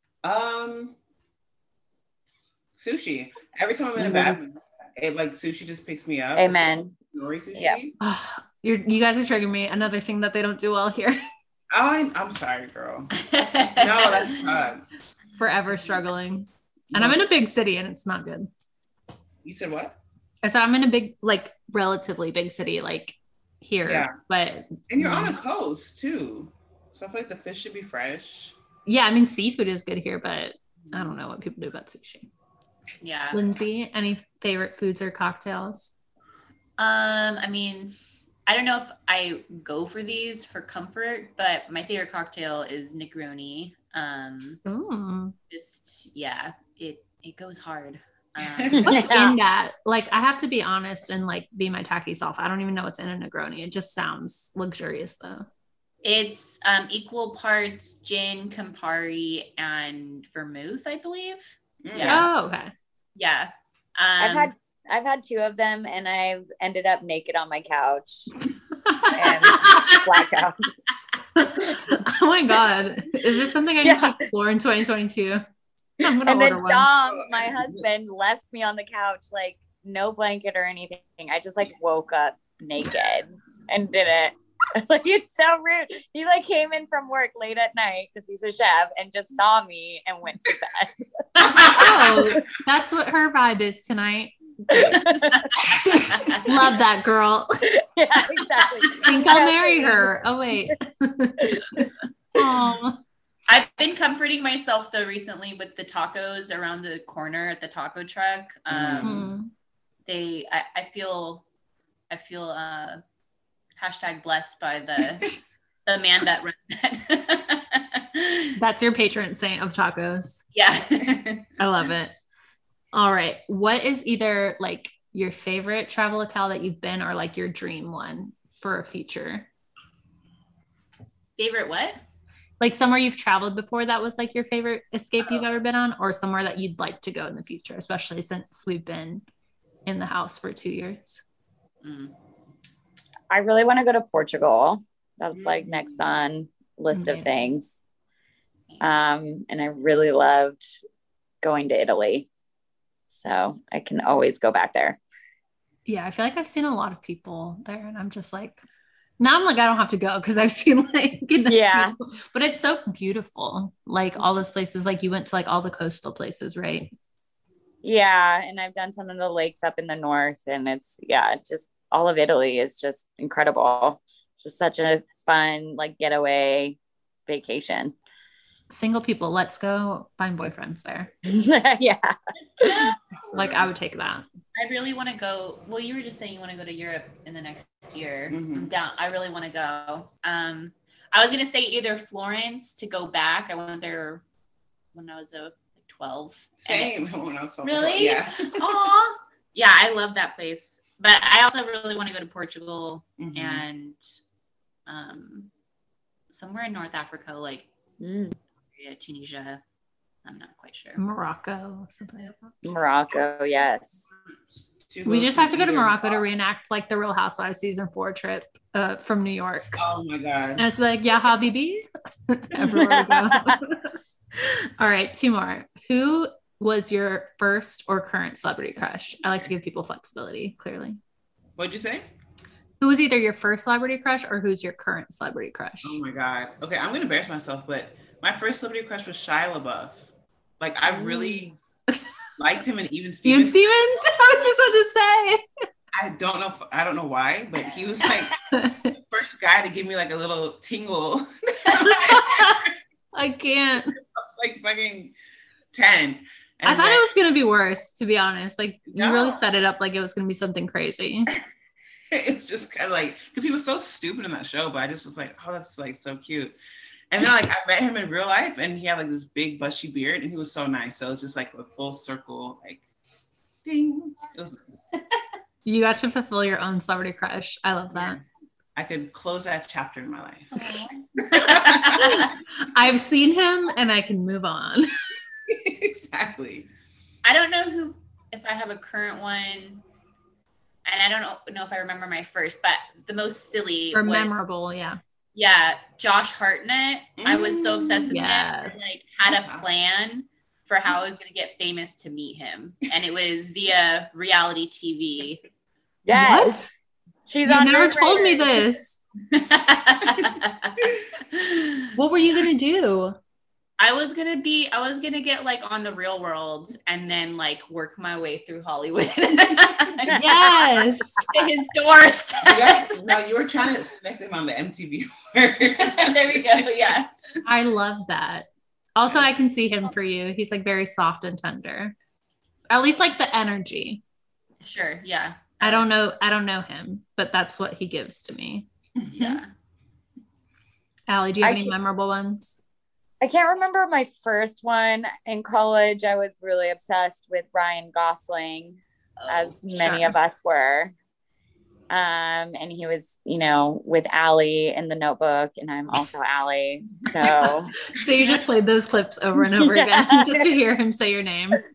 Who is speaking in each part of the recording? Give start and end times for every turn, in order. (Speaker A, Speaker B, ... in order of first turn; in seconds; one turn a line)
Speaker A: 0.2-0.9
Speaker A: 2.8-7.9
Speaker B: 4.0-4.4
Speaker B: 6.3-7.0
Speaker B: 7.5-7.8
Speaker C: 8.0-11.2
Speaker A: 11.7-13.1
Speaker D: 13.2-14.4
Speaker A: 13.8-15.2
Speaker C: 15.4-18.5
Speaker A: 16.9-17.2
Speaker A: 19.4-20.0
Speaker C: 20.4-25.4
Speaker A: 23.9-24.1
Speaker A: 24.9-28.6
Speaker C: 28.9-32.3
Speaker D: 33.0-33.4
Speaker C: 33.3-35.9
Speaker D: 36.8-37.9
Speaker D: 38.5-44.6
Speaker C: 44.6-45.3
Speaker D: 45.5-48.9
Speaker A: 48.4-48.9
Speaker B: 48.7-49.3
Speaker C: 48.9-55.5
Speaker D: 56.0-62.2
Speaker A: 61.8-62.3
Speaker C: 62.0-62.7
Speaker D: 63.1-64.5
Speaker B: 64.2-68.3
Speaker C: 68.8-69.8
Speaker B: 69.2-70.7
Speaker D: 69.6-70.1
Speaker C: 71.4-75.4
Speaker B: 73.8-74.2
Speaker C: 76.0-76.9
Speaker B: 76.2-90.9
Speaker A: 77.2-77.8
Speaker A: 91.5-91.8
Speaker C: 91.7-95.0
Speaker B: 94.8-95.3
Speaker C: 95.6-97.6
Speaker D: 96.1-96.4
Speaker B: 97.7-100.1
Speaker C: 99.0-103.0
Speaker D: 103.5-109.1
Speaker A: 108.7-109.3
Speaker C: 109.0-109.5
Speaker D: 110.0-111.4
Speaker D: 112.1-113.0
Speaker D: 113.8-118.5
Speaker C: 118.6-120.4
Speaker D: 120.5-121.5
Speaker C: 121.6-122.1
Speaker C: 122.9-129.5
Speaker D: 131.4-132.0
Speaker C: 132.6-139.2
Speaker C: 139.8-141.2
Speaker D: 141.8-142.1
Speaker B: 143.3-147.8
Speaker C: 146.9-147.4
Speaker B: 148.8-150.8
Speaker B: 151.4-152.3
Speaker B: 153.1-155.0
Speaker C: 155.8-158.6
Speaker C: 159.2-166.9
Speaker B: 161.5-161.9
Speaker B: 167.8-177.9
Speaker C: 178.7-181.1
Speaker B: 181.2-182.9
Speaker D: 182.7-183.0
Speaker A: 183.3-183.7
Speaker C: 183.3-184.3
Speaker D: 184.6-194.2
Speaker A: 188.3-188.7
Speaker D: 194.9-196.9
Speaker A: 196.6-198.7
Speaker D: 197.6-204.0
Speaker A: 203.2-203.6
Speaker D: 204.9-205.5
Speaker D: 206.3-207.7
Speaker B: 208.0-208.3
Speaker D: 208.7-209.6
Speaker D: 210.2-211.0
Speaker C: 211.0-212.5
Speaker B: 212.6-214.0
Speaker A: 214.8-216.2
Speaker C: 215.0-219.8
Speaker A: 219.8-220.6
Speaker C: 220.6-231.0
Speaker B: 222.6-223.6
Speaker A: 231.6-232.1
Speaker C: 232.8-236.0
Speaker A: 235.8-241.6
Speaker B: 240.9-241.3
Speaker A: 242.4-243.6
Speaker C: 243.2-245.4
Speaker A: 245.9-248.3
Speaker C: 248.5-248.9
Speaker A: 249.0-252.4
Speaker C: 251.8-253.9
Speaker A: 254.2-255.1
Speaker A: 255.7-257.1
Speaker C: 256.6-261.3
Speaker A: 258.9-259.4
Speaker A: 262.1-266.5
Speaker A: 267.1-272.8
Speaker A: 273.6-274.8
Speaker C: 275.6-278.2
Speaker A: 277.9-280.8
Speaker D: 280.6-282.3
Speaker A: 281.3-282.2
Speaker C: 282.0-284.9
Speaker A: 285.5-286.7
Speaker D: 287.2-289.8
Speaker D: 290.9-294.3
Speaker C: 293.9-295.0
Speaker D: 295.3-305.4
Speaker A: 297.2-298.2
Speaker C: 298.1-298.8
Speaker A: 299.1-299.7
Speaker B: 306.1-306.6
Speaker C: 306.1-306.7
Speaker B: 307.3-308.6
Speaker C: 307.4-309.0
Speaker D: 309.3-311.9
Speaker C: 311.9-313.1
Speaker D: 313.8-320.1
Speaker B: 320.1-320.7
Speaker C: 320.1-321.6
Speaker D: 321.3-323.0
Speaker A: 322.5-326.6
Speaker D: 325.8-327.4
Speaker C: 327.4-331.9
Speaker C: 332.7-334.0
Speaker D: 334.6-335.9
Speaker C: 335.6-338.7
Speaker D: 339.1-339.5
Speaker C: 341.1-342.6
Speaker B: 341.4-341.7
Speaker B: 343.2-350.9
Speaker D: 349.2-349.6
Speaker B: 351.9-357.7
Speaker C: 357.3-361.6
Speaker B: 359.6-360.5